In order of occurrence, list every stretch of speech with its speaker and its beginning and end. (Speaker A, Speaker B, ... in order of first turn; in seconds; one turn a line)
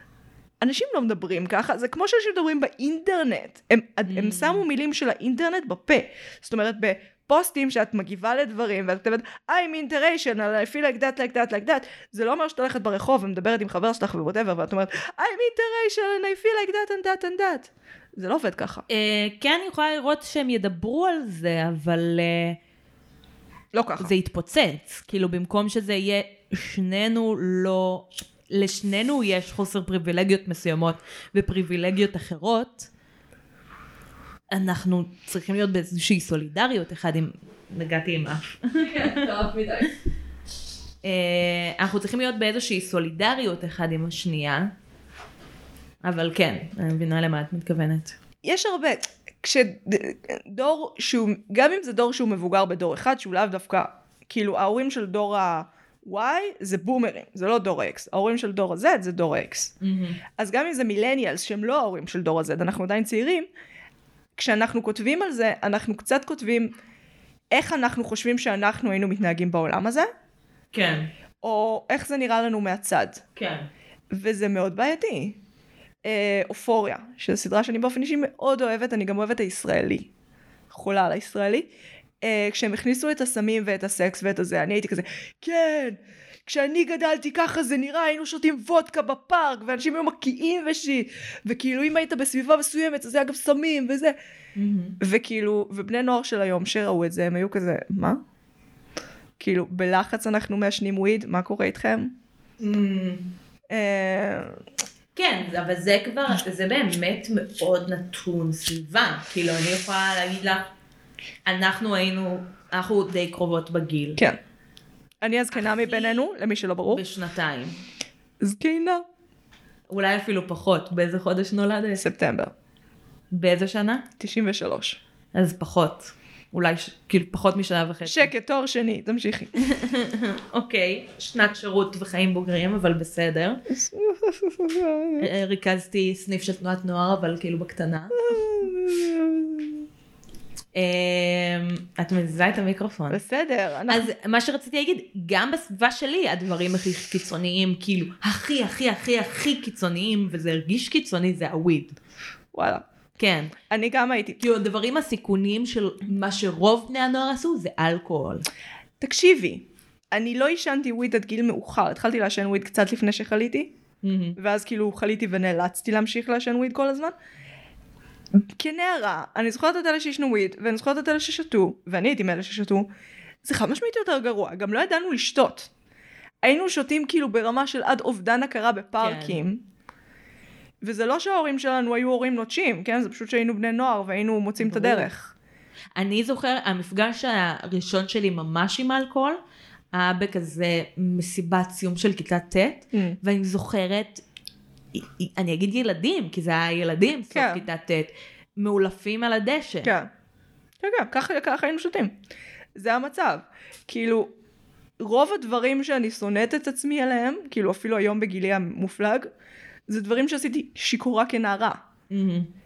Speaker A: 0.6-18.9
Speaker B: 4.1-4.6
Speaker B: 18.9-22.6
Speaker A: 23.7-24.1
Speaker B: 24.0-32.9
Speaker B: 34.5-39.2
Speaker A: 38.8-39.9
Speaker B: 41.0-44.7
Speaker B: 46.0-48.2
Speaker A: 48.4-59.7
Speaker B: 59.8-60.2
Speaker A: 60.4-63.5
Speaker A: 64.4-66.8
Speaker A: 67.5-70.1
Speaker B: 70.7-71.1
Speaker A: 71.4-73.2
Speaker B: 73.4-73.7
Speaker A: 74.1-75.4
Speaker A: 76.0-80.1
Speaker A: 80.7-81.7
Speaker A: 82.2-94.2
Speaker B: 94.6-95.0
Speaker A: 95.0-98.2
Speaker A: 99.4-102.1
Speaker B: 102.6-103.3
Speaker A: 103.7-104.6
Speaker B: 105.2-110.6
Speaker B: 111.5-114.2
Speaker A: 115.2-117.0
Speaker B: 115.7-116.2
Speaker B: 116.9-117.7
Speaker A: 118.4-119.0
Speaker B: 119.9-122.1
Speaker A: 122.0-122.5
Speaker B: 123.3-124.1
Speaker A: 124.2-125.0
Speaker B: 125.3-128.3
Speaker A: 128.1-129.5
Speaker B: 129.6-133.6
Speaker A: 133.7-135.3
Speaker B: 135.2-138.4
Speaker A: 138.2-139.8
Speaker B: 140.8-143.2
Speaker A: 143.1-144.1
Speaker B: 143.9-152.0
Speaker A: 152.5-152.8
Speaker B: 153.2-153.5
Speaker A: 153.7-154.4
Speaker B: 154.4-158.4
Speaker A: 159.0-163.7
Speaker B: 164.0-164.4
Speaker A: 164.4-167.2
Speaker A: 168.6-172.9
Speaker A: 173.4-175.7
Speaker A: 176.4-179.7
Speaker B: 179.0-179.4
Speaker A: 180.8-185.3
Speaker B: 184.6-185.1
Speaker B: 186.0-189.4
Speaker B: 189.9-194.2
Speaker A: 192.9-193.2
Speaker B: 194.9-199.9
Speaker A: 197.3-197.7
Speaker A: 199.8-200.1
Speaker A: 200.8-202.2
Speaker A: 202.8-204.3
Speaker A: 205.0-209.3
Speaker A: 209.9-211.8
Speaker B: 212.1-212.5